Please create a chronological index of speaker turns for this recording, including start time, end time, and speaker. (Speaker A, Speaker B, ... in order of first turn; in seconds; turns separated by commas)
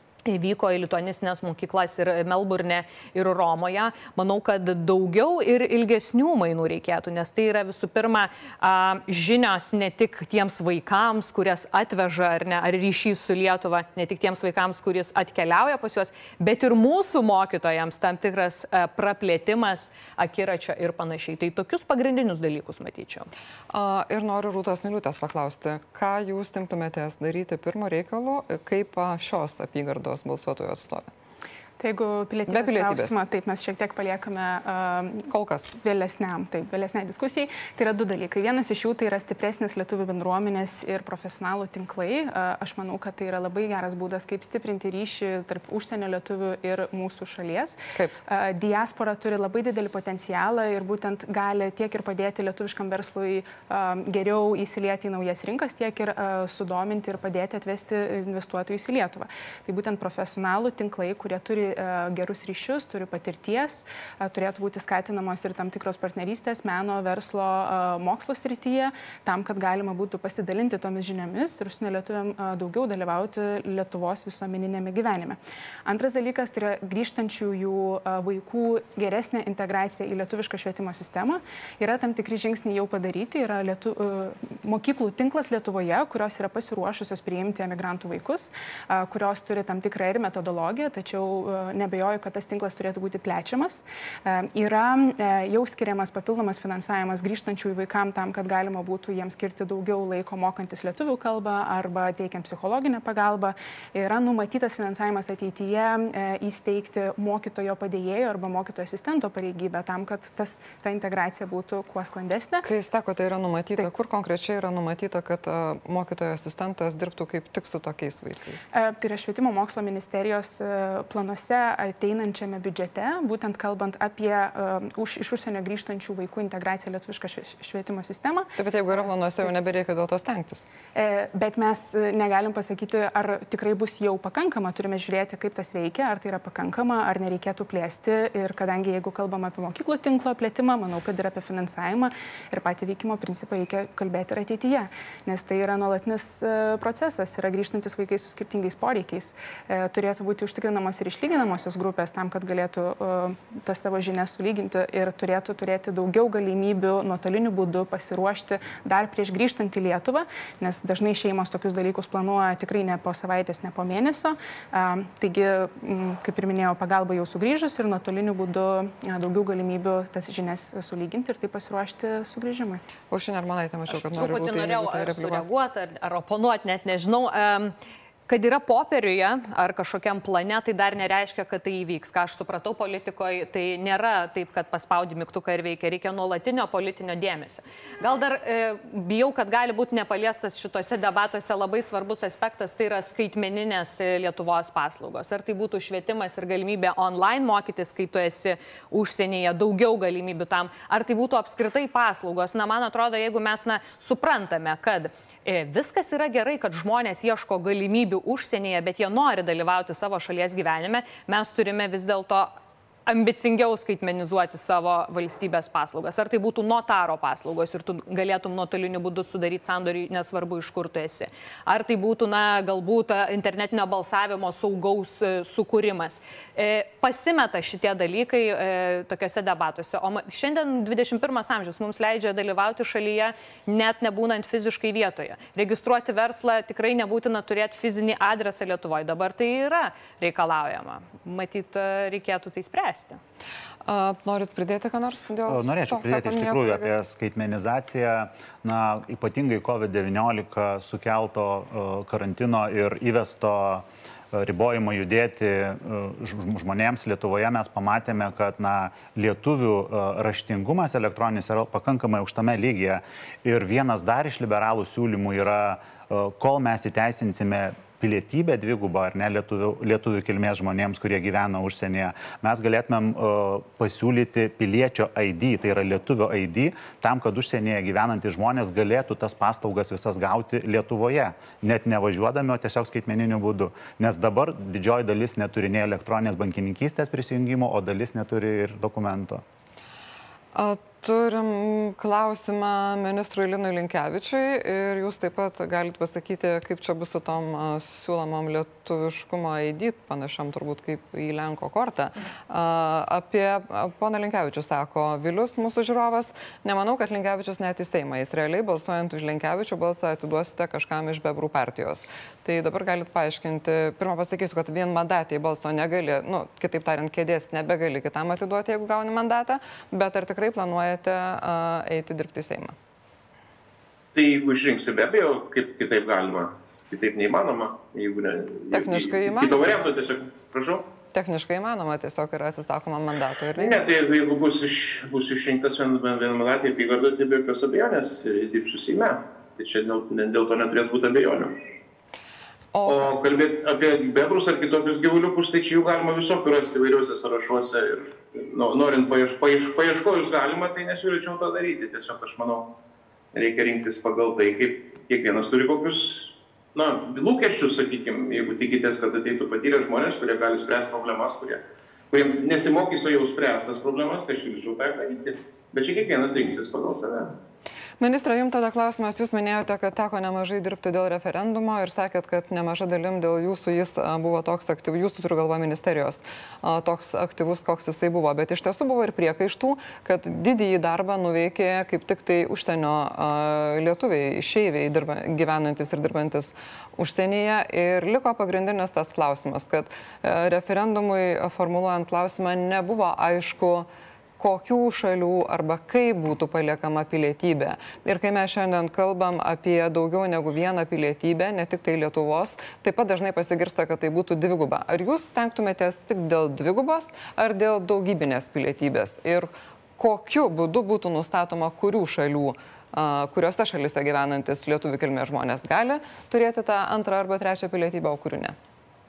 Speaker A: 0.2-23.3, Speaker B: 23.7-31.1, Speaker C: 31.8-112.6, Speaker B: 32.5-33.1, Speaker B: 35.3-35.7, Speaker B: 112.6-118.6, Speaker C: 118.7-128.5, Speaker B: 128.6-130.7, Speaker C: 130.9-172.8, Speaker B: 173.1-175.4, Speaker A: 173.9-177.7, Speaker A: 178.3-212.5, Speaker A: 213.1-243.2, Speaker B: 243.8-246.9, Speaker D: 245.5-289.4, Speaker B: 290.5-322.7, Speaker E: 324.1-330.9, Speaker B: 328.7-329.7, Speaker B: 331.1-333.9, Speaker E: 333.6-341.5, Speaker B: 342.7-343.1, Speaker E: 342.9-352.7, Speaker E: 353.3-367.4, Speaker B: 368.0-418.5